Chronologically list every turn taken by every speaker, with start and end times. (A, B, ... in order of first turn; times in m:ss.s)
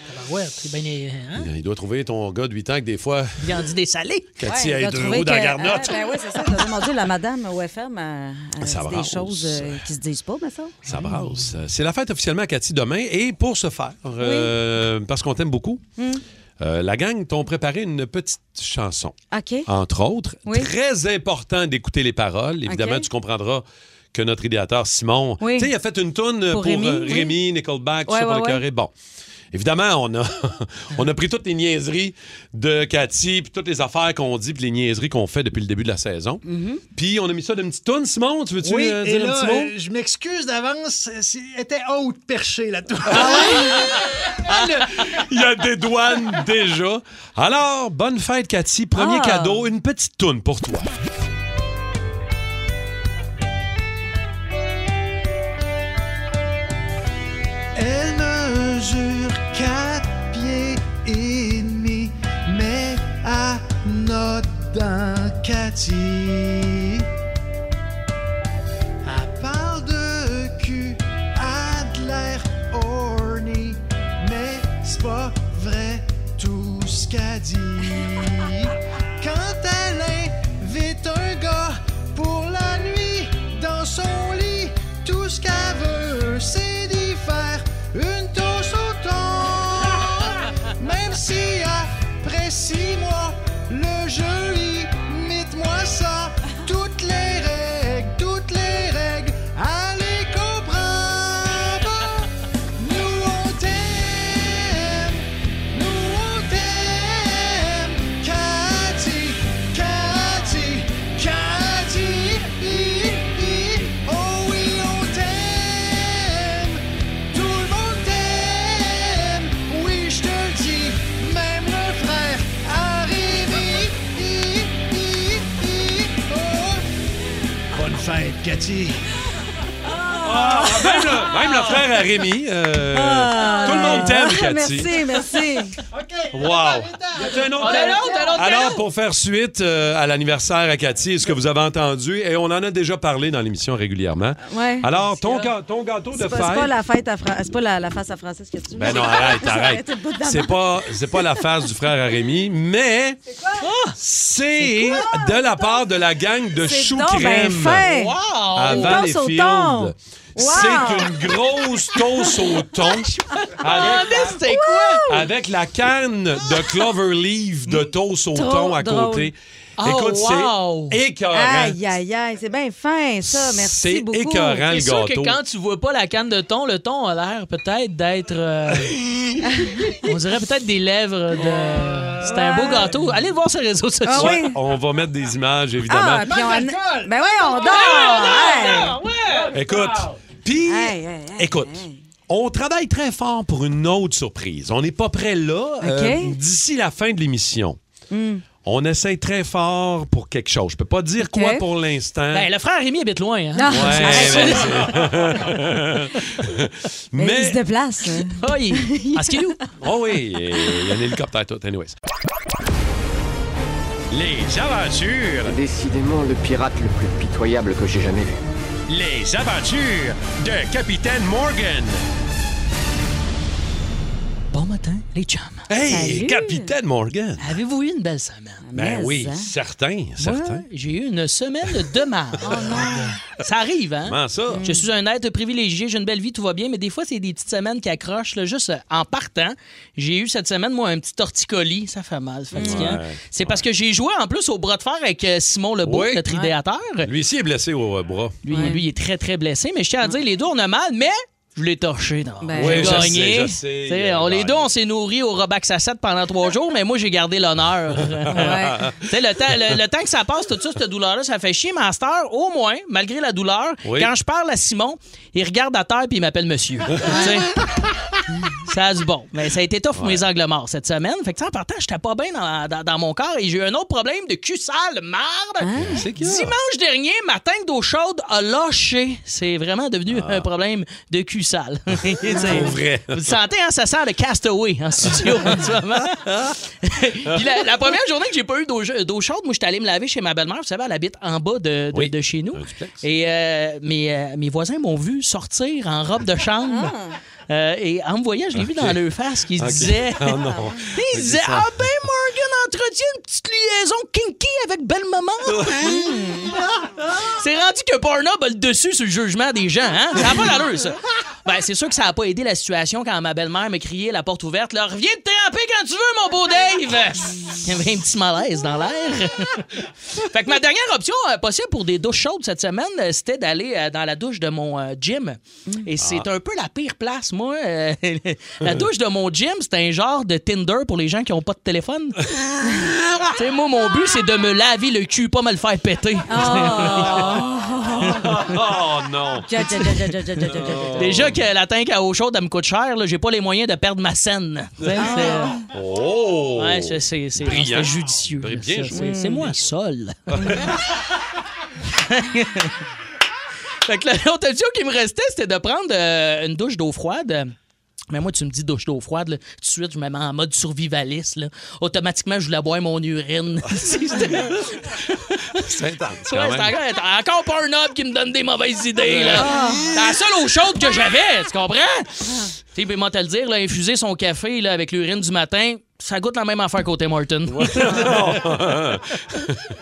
0:00.1-0:01.5 A
0:01.3-0:03.5 B
0:03.4-0:04.3 A
0:04.4-0:06.1 B
0:04.4-0:10.7 C
0:08.6-0:09.9 B
0:10.8-0:15.8 B
0:14.2-0:14.5 C
0:16.6-0:28.9 B
0:19.3-0:19.7 C
0:22.6-0:23.0 C
0:25.4-0:25.7 C
0:26.5-0:27.4 C
0:28.1-0:28.6 C
0:29.5-0:39.7 B
0:36.4-0:36.8 C
0:38.6-0:43.8 D
0:43.1-0:50.9 B
0:43.1-0:43.9 C
0:48.9-0:49.6 C
0:57.7-1:07.1 D
1:09.0-2:06.8 D
2:07.7-2:09.0 D
2:10.0-2:11.4 C
2:10.2-2:15.0 B
2:12.9-2:15.8 C
2:13.4-2:14.0 A
2:15.9-2:18.5 D
2:16.3-2:26.7 B
2:17.6-2:18.8 A
2:24.4-2:25.3 C
2:26.1-2:31.4 C
2:28.7-2:33.2 B
2:33.6-2:34.0 A
2:33.9-2:37.9 B
2:34.6-2:35.8 C
2:36.6-2:38.1 C
2:37.8-2:39.0 A
2:38.5-2:44.4 B
2:38.7-2:41.2 C
2:43.6-2:45.1 A
2:43.6-2:45.2 C
2:45.0-2:51.8 B
2:48.3-2:49.3 C
2:49.8-2:51.0 A
2:51.3-2:54.7 C
2:53.2-2:55.4 B
2:54.6-2:59.0 A
2:59.4-3:00.0 C
3:00.0-3:04.4 A
3:01.7-3:02.1 D
3:02.2-3:02.9 C
3:04.0-3:04.6 C
3:04.1-3:06.3 B
3:05.9-3:09.0 C
3:06.2-3:08.4 D
3:07.6-3:09.5 A
3:09.5-3:17.8 B
3:10.7-3:11.9 C
3:15.8-3:16.4 C
3:18.1-3:18.4 C
3:18.6-3:22.5 B
3:21.2-3:21.6 C
3:22.3-3:24.9 A
3:23.6-3:24.9 C
3:23.7-3:27.6 B
3:27.2-3:29.5 C
3:28.3-3:29.6 A
3:29.8-3:32.0 B
3:34.1-3:35.6 B
3:35.4-3:38.3 E
3:38.9-3:42.0 B
3:44.5-3:45.6 A
3:45.7-3:47.5 B
3:45.9-3:46.7 C
3:47.4-3:48.6 A
3:48.6-3:49.5 C
3:48.7-3:50.6 B
3:50.2-4:07.1 A
3:52.4-3:53.2 C
3:54.0-3:54.7 B
3:54.5-3:54.8 C
4:02.5-4:03.0 C
4:02.6-4:03.6 B
4:05.8-4:06.3 B
4:07.0-4:08.7 B
4:08.4-4:27.6 A
4:08.5-4:08.8 C
4:12.4-4:13.1 C
4:12.6-4:14.7 B
4:18.1-4:19.0 B
4:18.3-4:18.8 C
4:23.8-4:24.1 B
4:28.6-4:56.9 A
4:29.9-4:30.2 B
4:35.6-4:36.0 C
4:35.8-4:36.5 B
4:40.1-4:40.4 B
4:42.3-4:42.7 C
4:42.3-4:43.3 B
4:45.1-4:45.5 B
4:51.9-4:53.0 B
4:56.6-4:57.2 C
4:57.5-5:05.9 A
4:58.6-4:59.0 B
4:59.6-5:01.8 B
5:00.4-5:00.8 C
5:05.5-5:05.8 B
5:05.8-5:06.5 C
5:07.2-5:32.2 A
5:26.0-5:26.3 B
5:32.6-5:32.9 C
5:32.9-5:33.2 B
5:33.4-5:37.3 A
5:36.3-5:38.4 C
5:36.7-5:37.4 B
5:37.9-5:39.6 B
5:39.4-5:41.3 C
5:40.5-5:41.4 B
5:41.0-5:45.6 A
5:44.8-5:49.7 B
5:45.0-5:45.6 C
5:46.6-5:50.7 A
5:48.9-5:49.5 C
5:50.3-5:50.7 B
5:50.4-5:50.6 C
5:52.1-5:52.7 A
5:53.9-5:57.5 A
5:58.1-6:05.6 A
6:05.6-6:06.7 B
6:06.2-6:18.4 A
6:09.0-6:10.0 B
6:09.3-6:09.9 C
6:17.5-6:19.7 B